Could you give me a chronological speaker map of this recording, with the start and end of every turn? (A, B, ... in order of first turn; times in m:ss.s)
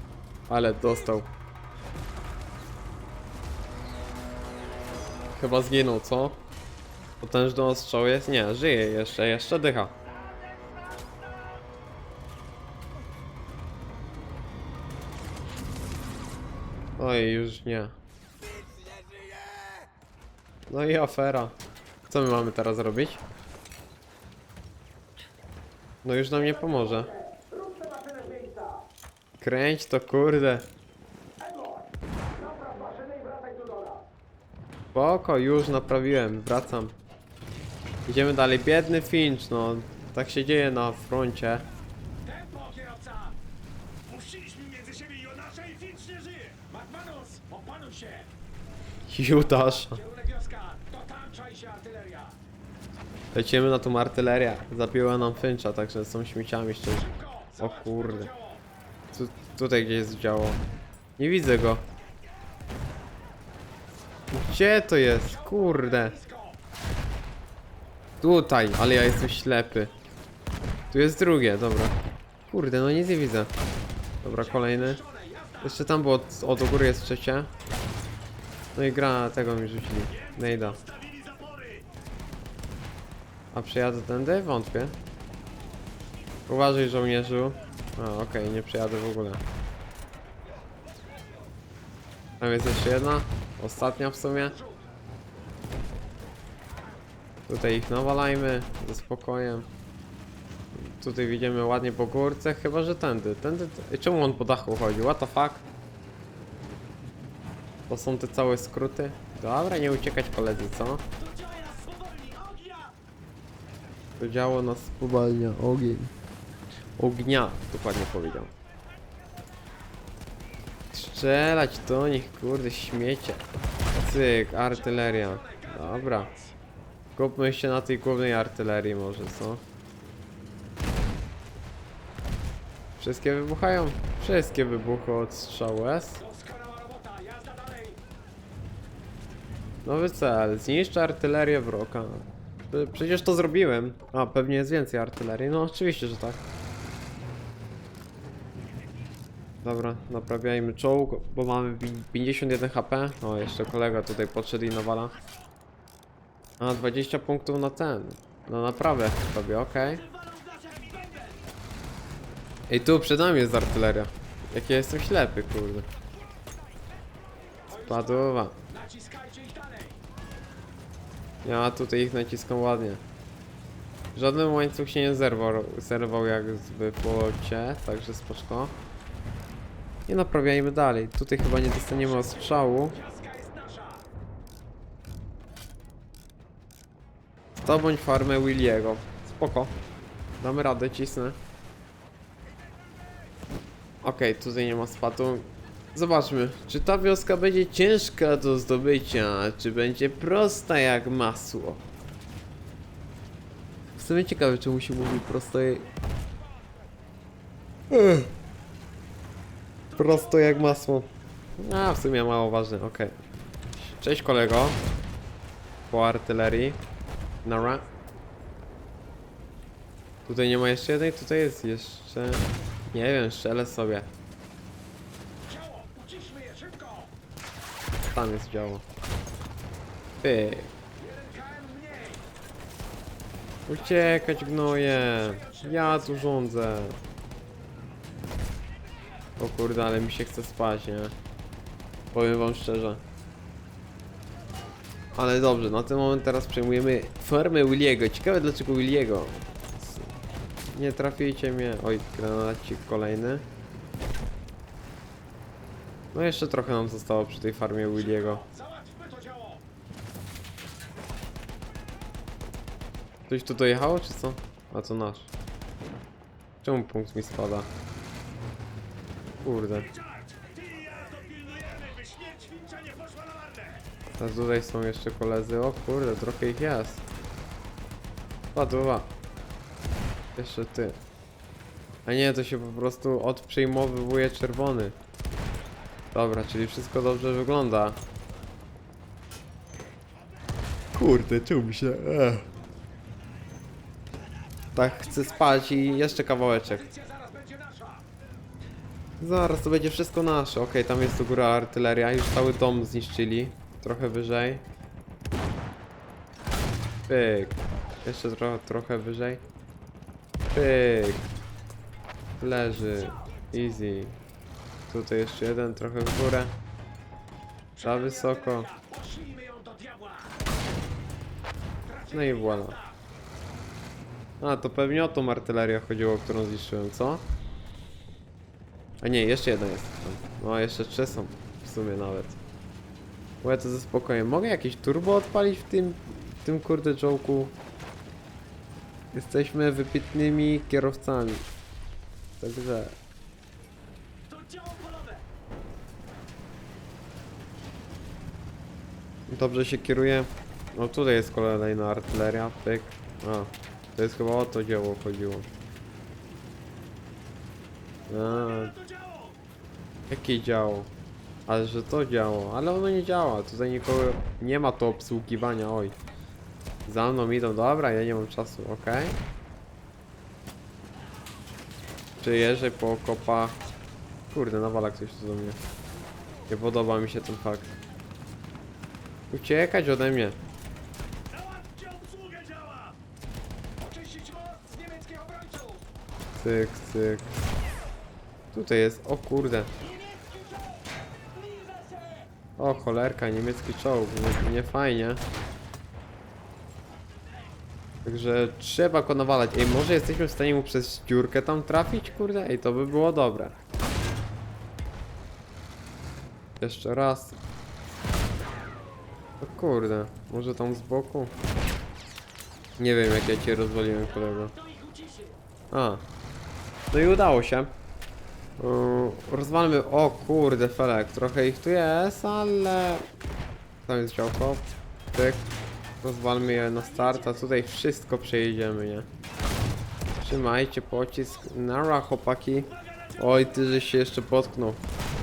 0:00.5-0:01.3 A
0:05.3-0:06.4 A
0:07.2-0:10.0 A
0:17.0-0:18.0 A
0:20.7-0:21.6 A
0:22.1-0:23.2 A
0:26.0-0:27.1 A
0:26.3-0:28.9 B
0:29.4-0:30.7 A
0:31.4-0:34.1 B
0:34.9-0:37.0 A
0:38.1-0:41.7 A
0:42.2-0:43.4 B
0:44.1-0:46.6 C
0:46.7-0:48.3 B
0:49.1-0:50.0 A
0:49.4-0:52.4 B
0:53.3-0:58.3 A
0:56.9-0:58.6 B
0:59.1-1:00.6 A
1:01.2-1:01.8 A
1:04.3-1:06.2 A
1:05.2-1:06.6 B
1:08.2-1:09.9 A
1:10.9-1:12.0 A
1:12.5-1:13.5 A
1:14.2-1:15.0 A
1:14.4-1:15.9 B
1:15.6-1:17.5 A
1:18.8-1:20.8 A
1:20.2-1:21.9 C
1:23.5-1:25.0 A
1:26.5-1:29.4 A
1:32.4-1:34.6 A
1:34.3-1:34.8 B
1:37.5-1:39.7 A
1:40.7-1:45.6 A
1:47.9-1:51.0 A
1:51.2-1:53.0 B
1:54.2-1:56.1 A
1:57.0-1:58.5 A
2:00.9-2:03.4 A
2:04.0-2:06.3 A
2:04.7-2:06.6 B
2:07.2-2:09.6 A
2:13.0-2:16.2 A
2:16.2-2:18.0 B
2:19.8-2:26.4 A
2:29.6-2:35.2 A
2:36.6-2:40.0 A
2:39.7-2:41.4 B
2:42.7-2:45.9 A
2:47.4-2:50.0 B
2:47.7-2:48.6 A
2:51.4-2:53.0 A
2:54.2-2:58.8 A
3:00.1-3:03.0 A
3:01.7-3:04.1 B
3:07.6-3:09.8 A
3:10.4-3:11.4 A
3:14.0-3:21.8 A
3:23.9-3:25.9 A
3:27.9-3:28.3 A
3:29.9-3:30.9 B
3:30.0-3:33.1 A
3:33.8-3:34.8 A
3:35.9-3:36.8 A
3:37.4-3:37.8 A
3:40.3-3:44.1 A
3:45.4-3:47.1 B
3:48.0-3:48.8 A
3:50.2-3:50.7 A
3:51.0-3:52.3 B
3:53.7-3:57.0 A
3:53.7-3:56.4 B
3:59.4-4:01.1 A
4:02.1-4:03.0 A
4:05.2-4:10.1 A
4:10.7-4:13.5 A
4:16.1-4:18.4 A
4:17.9-4:19.6 B
4:23.3-4:25.3 A
4:26.6-4:27.7 A
4:29.4-4:29.9 A
4:30.0-4:33.8 C
4:34.2-4:37.0 A
4:38.5-4:39.1 A
4:40.4-4:41.0 A
4:42.1-4:45.0 A
4:46.1-4:48.0 A
4:50.9-4:52.5 A
4:54.7-4:56.9 A
4:54.8-4:58.1 B
4:59.2-5:04.6 A
5:07.1-5:09.4 A
5:10.5-5:11.3 A
5:12.4-5:14.2 A
5:14.9-5:16.6 A
5:17.8-5:20.4 B
5:17.8-5:18.7 A
5:21.9-5:23.0 B
5:22.1-5:22.8 A
5:24.4-5:27.3 A
5:29.0-5:32.4 A
5:33.4-5:37.5 A
5:39.1-5:41.4 A
5:42.4-5:43.0 A
5:44.2-5:45.3 B
5:49.3-5:55.5 A
5:58.1-5:58.7 A
5:58.1-5:59.4 B
6:00.1-6:00.9 A
6:01.5-6:06.0 A
6:06.9-6:09.2 A
6:12.2-6:13.6 A
6:14.3-6:15.6 A
6:16.5-6:17.7 A
6:19.3-6:20.4 A
6:21.3-6:23.0 B
6:23.8-6:25.9 B
6:26.4-6:27.3 A
6:28.5-6:29.7 A
6:29.8-6:32.3 B
6:32.6-6:35.2 A
6:38.0-6:43.6 A
6:46.6-6:47.4 A
6:49.4-6:51.3 A
6:52.8-6:54.5 A
6:54.0-6:55.4 B
6:55.7-6:56.0 A
6:56.9-6:57.7 A
6:58.6-7:03.0 A
7:03.9-7:05.4 A
7:06.0-7:09.1 A
7:06.4-7:07.6 B
7:10.2-7:14.8 A
7:12.7-7:13.8 B